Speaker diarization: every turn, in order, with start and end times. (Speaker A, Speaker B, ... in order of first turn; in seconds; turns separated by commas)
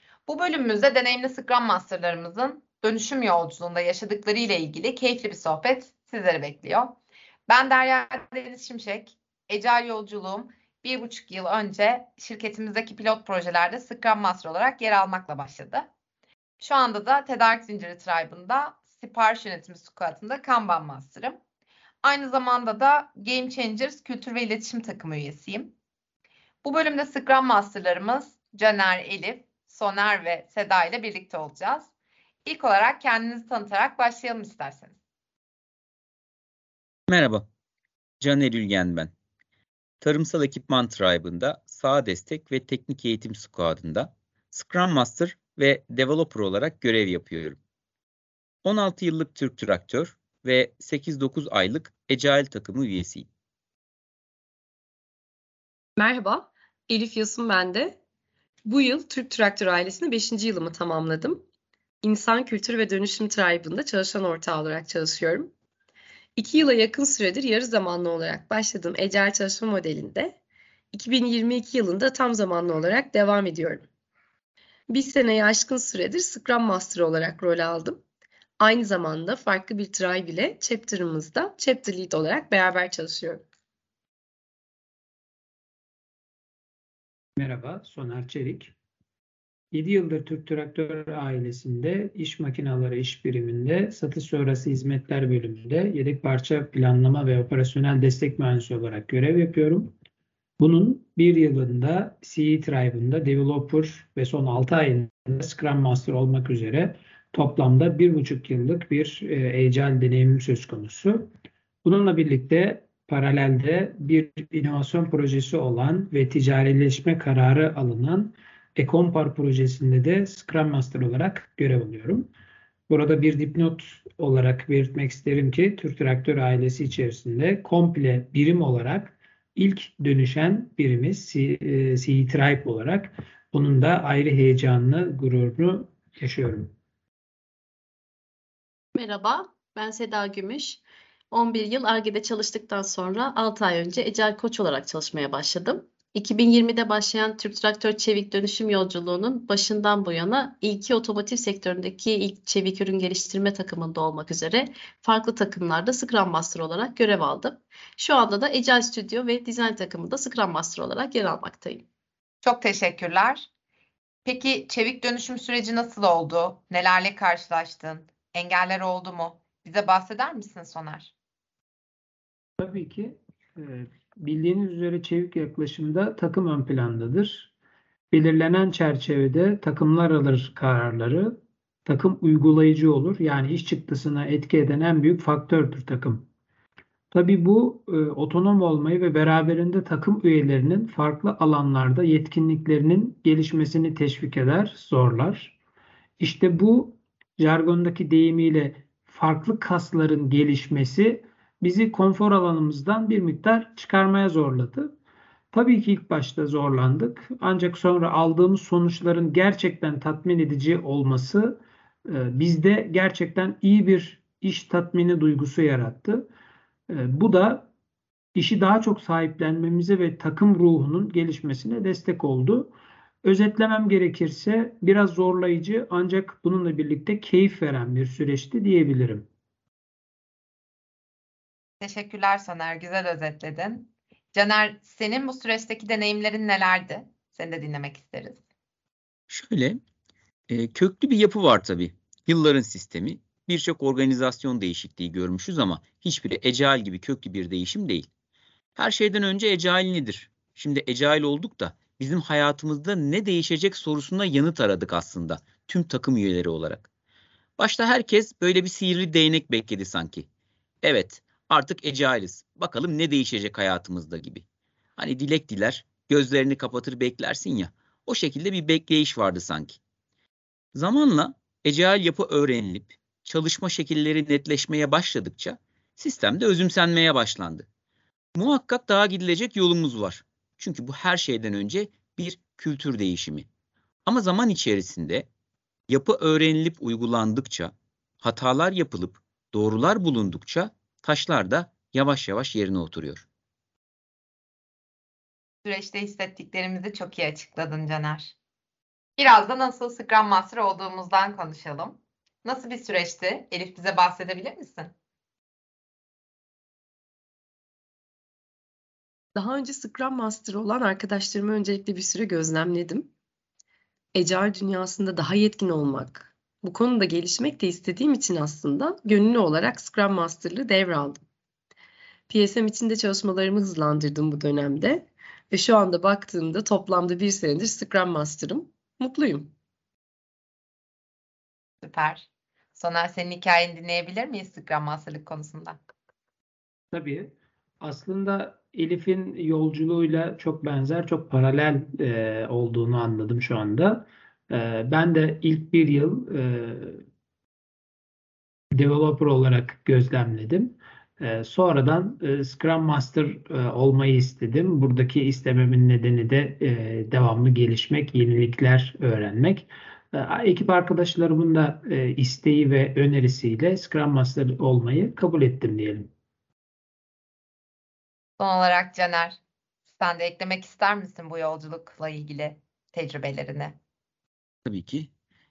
Speaker A: 0.3-15.9, Speaker A: 16.6-21.4, Speaker A: 22.0-25.7, Speaker A: 26.6-31.9, Speaker A: 32.5-35.0, Speaker B: 37.1-37.5, Speaker B: 38.2-39.1, Speaker B: 40.0-47.6, Speaker B: 48.6-53.3, Speaker C: 56.0-58.0, Speaker C: 58.6-61.4, Speaker C: 62.0-65.5, Speaker C: 66.4-70.4, Speaker C: 70.9-73.9, Speaker C: 74.9-78.0, Speaker C: 78.6-83.5, Speaker D: 87.4-88.7, Speaker D: 89.7-100.0, Speaker D: 100.6-111.3, Speaker D: 111.8-122.3, Speaker D: 122.9-136.7, Speaker E: 138.9-161.9, Speaker A: 162.4-163.5, Speaker A: 164.3-171.1, Speaker D: 172.6-177.5, Speaker D: 178.1-186.3, Speaker D: 187.1-195.6, Speaker D: 196.2-204.9, Speaker D: 205.5-216.3, Speaker D: 216.9-217.7, Speaker D: 218.3-229.3, Speaker A: 231.8-238.4, Speaker B: 239.3-239.8, Speaker B: 240.5-248.1, Speaker B: 248.8-256.9, Speaker B: 257.6-260.3, Speaker B: 260.8-264.4, Speaker B: 265.0-269.8, Speaker B: 270.7-277.7, Speaker B: 278.4-283.5, Speaker B: 284.1-285.3, Speaker B: 285.9-293.3, Speaker A: 295.6-298.4, Speaker A: 299.2-304.9, Speaker C: 309.4-313.1, Speaker C: 314.1-321.2, Speaker C: 322.3-329.5, Speaker A: 331.8-335.8, Speaker D: 336.9-347.0, Speaker D: 348.8-366.1, Speaker A: 368.4-369.4, Speaker A: 370.0-373.8, Speaker B: 374.7-375.1